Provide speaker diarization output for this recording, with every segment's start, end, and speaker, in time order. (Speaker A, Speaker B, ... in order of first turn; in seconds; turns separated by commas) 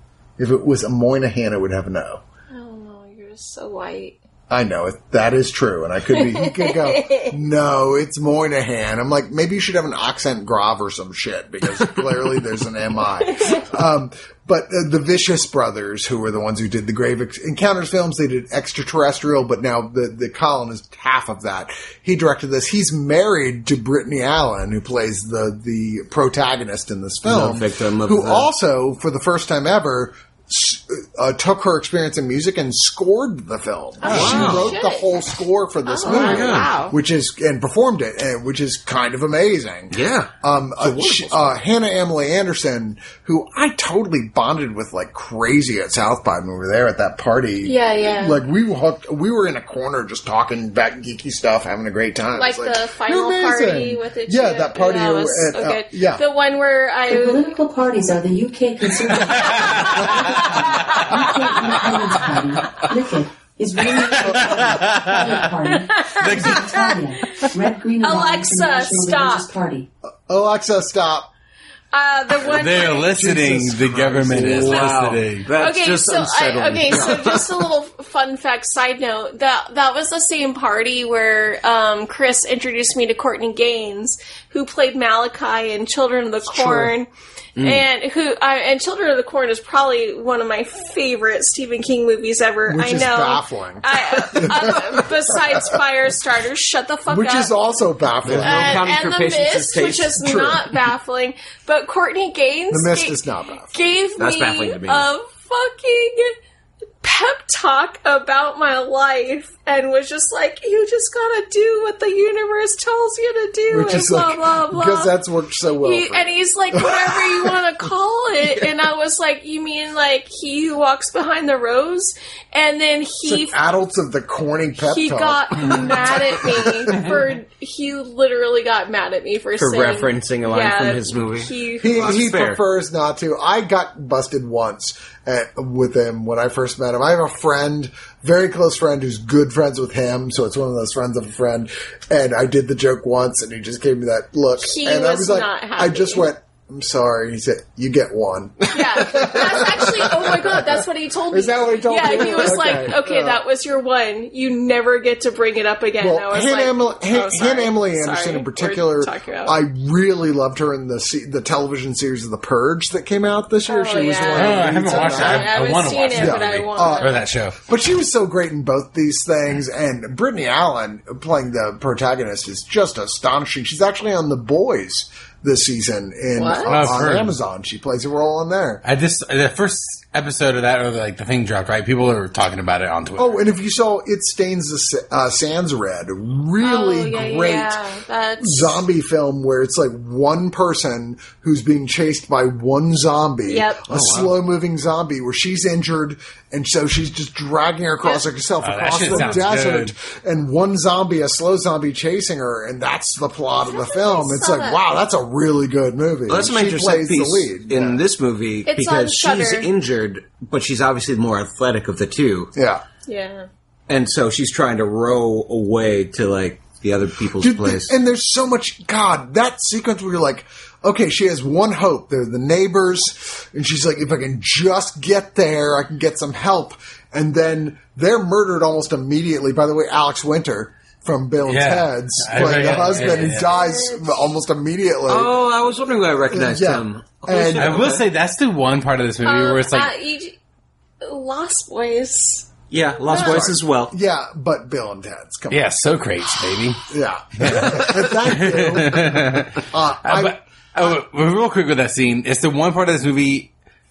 Speaker A: 0.4-2.2, Speaker B: 2.5-4.2, Speaker A: 4.5-56.2, Speaker B: 6.1-7.3, Speaker B: 13.2-13.7, Speaker C: 27.2-28.5, Speaker B: 34.0-35.3, Speaker C: 34.1-34.8, Speaker D: 34.1-34.7, Speaker B: 35.9-37.0, Speaker C: 36.1-36.7, Speaker C: 39.9-41.6, Speaker B: 47.6-48.4, Speaker B: 52.4-57.5, Speaker E: 57.1-69.9, Speaker D: 59.4-60.2, Speaker B: 59.6-61.4, Speaker D: 63.8-65.5, Speaker B: 65.7-67.0, Speaker D: 66.2-66.8, Speaker B: 68.0-69.5, Speaker A: 70.3-71.3, Speaker B: 71.9-73.1, Speaker D: 72.5-75.5, Speaker A: 72.6-75.2, Speaker C: 74.3-77.6, Speaker B: 75.6-97.5, Speaker A: 86.5-87.0, Speaker C: 87.6-87.8, Speaker A: 92.7-95.7, Speaker A: 97.1-98.8, Speaker C: 98.2-100.4, Speaker B: 98.4-103.2, Speaker A: 100.2-100.7, Speaker A: 102.7-103.8, Speaker B: 103.7-106.4, Speaker C: 104.2-105.1, Speaker B: 107.0-115.1, Speaker A: 113.7-117.6, Speaker B: 115.8-123.6, Speaker A: 123.2-127.1, Speaker B: 124.8-132.2, Speaker C: 129.6-132.6, Speaker A: 131.8-153.4, Speaker B: 144.6-146.3, Speaker B: 148.7-159.6, Speaker A: 156.0-165.6, Speaker B: 163.7-167.2, Speaker D: 164.3-167.6, Speaker A: 166.1-178.8, Speaker B: 176.3-177.0, Speaker D: 176.7-177.3, Speaker D: 178.8-183.4, Speaker A: 183.2-187.8, Speaker B: 186.6-188.8, Speaker A: 188.4-208.0, Speaker B: 193.5-193.8, Speaker C: 193.9-194.3, Speaker D: 198.6-199.9, Speaker B: 203.6-204.8, Speaker C: 206.3-212.5, Speaker B: 208.7-209.7, Speaker A: 212.6-212.8, Speaker B: 213.1-213.5, Speaker C: 213.9-217.9, Speaker A: 217.4-235.3, Speaker D: 231.5-233.6, Speaker B: 232.4-234.3, Speaker C: 235.1-238.0, Speaker A: 236.3-237.8, Speaker D: 237.6-239.9, Speaker B: 239.2-240.4, Speaker B: 241.0-242.5, Speaker C: 242.7-243.9, Speaker B: 243.0-243.5, Speaker A: 243.1-245.7, Speaker D: 245.5-246.8, Speaker A: 246.9-250.9, Speaker D: 247.4-253.5